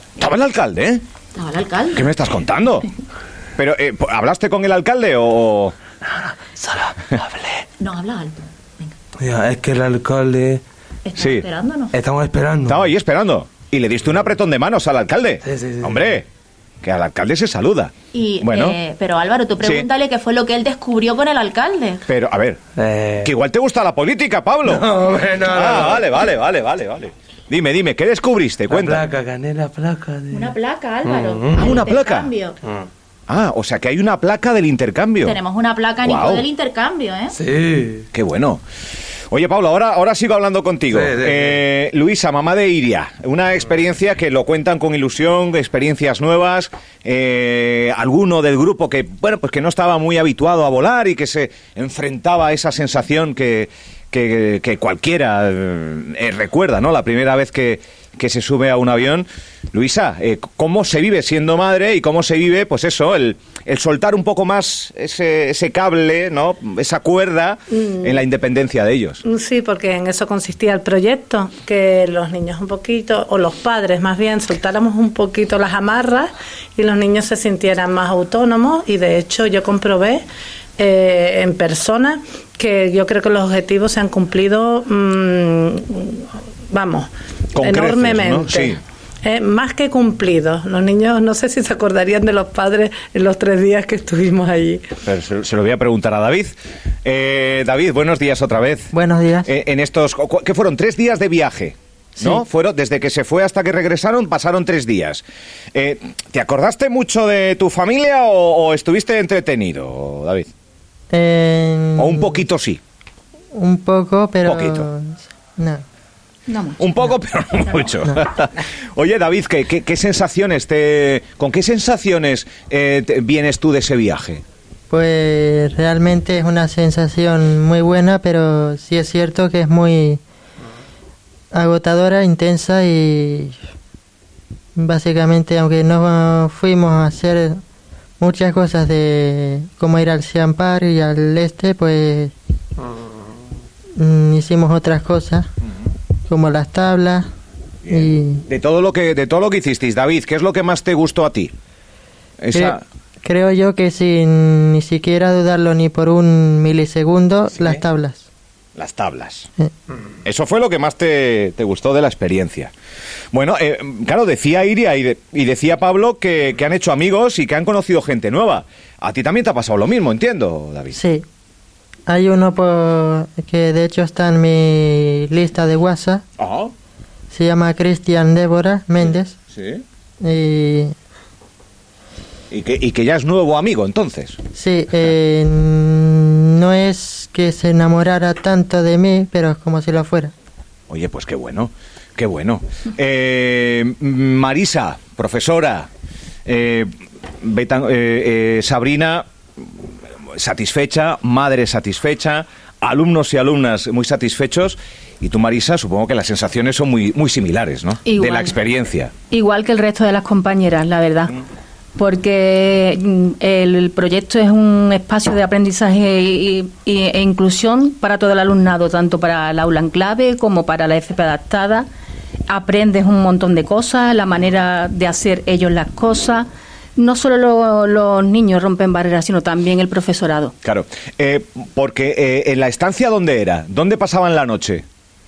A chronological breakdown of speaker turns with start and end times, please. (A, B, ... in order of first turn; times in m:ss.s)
0:00.2-0:01.0 A
0:01.3-0:02.1 B
0:01.9-0:02.9 A
0:03.6-0:05.8 A
0:06.6-0:07.6 C
0:07.8-0:09.0 B
0:09.2-0:10.6 C
0:11.1-0:11.9 B
0:11.2-0:11.4 A
0:12.0-0:12.8 C
0:12.7-0:16.3 A
0:15.5-0:15.9 C
0:16.8-0:18.8 A
0:18.1-0:22.0 B
0:19.6-0:19.9 A
0:22.1-0:22.6 A
0:22.8-0:23.2 C
0:23.2-0:24.9 A
0:25.1-0:25.7 C
0:25.5-0:29.1 A
0:28.7-0:30.5 C
0:30.3-0:32.6 B
0:31.1-0:31.6 C
0:31.6-0:32.3 A
0:33.3-0:35.4 A
0:35.2-0:37.4 B
0:36.0-0:36.4 A
0:37.4-0:38.0 C
0:38.1-0:38.6 A
0:39.3-1:09.2 A
1:07.8-1:08.2 D
1:09.2-1:20.2 D
1:20.8-1:34.8 D
1:27.5-1:28.8 A
1:35.0-1:38.9 A
1:38.9-1:39.5 E
1:39.4-1:45.2 A
1:45.7-1:50.5 A
1:51.1-1:52.4 E
1:52.0-1:52.8 A
1:53.6-1:55.8 E
1:54.4-1:54.9 A
1:56.8-2:04.4 A
2:04.9-2:10.2 E
2:11.5-2:13.6 E
2:14.8-2:17.6 E
2:18.2-2:22.3 E
2:24.0-2:25.5 E
2:26.3-2:27.2 E
2:27.9-2:31.5 A
2:27.9-2:28.4 E
2:32.4-2:32.8 A
2:32.5-2:38.3 E
2:38.8-2:39.5 A
2:40.2-2:42.7 A
2:43.3-2:51.0 A
2:50.9-2:51.2 E
2:52.1-2:56.2 E
2:56.4-2:56.7 A
2:57.3-2:59.4 E
2:59.0-2:59.8 A
3:00.2-3:00.9 E
3:02.5-3:04.4 A
3:04.5-3:10.3 E
3:10.9-3:15.9 A
3:16.5-3:19.3 A
3:20.3-3:29.1 A
3:28.0-3:28.6 F
3:29.3-3:31.4 F
3:32.0-3:41.9 F
3:42.5-3:50.5 F
3:50.6-3:54.8 A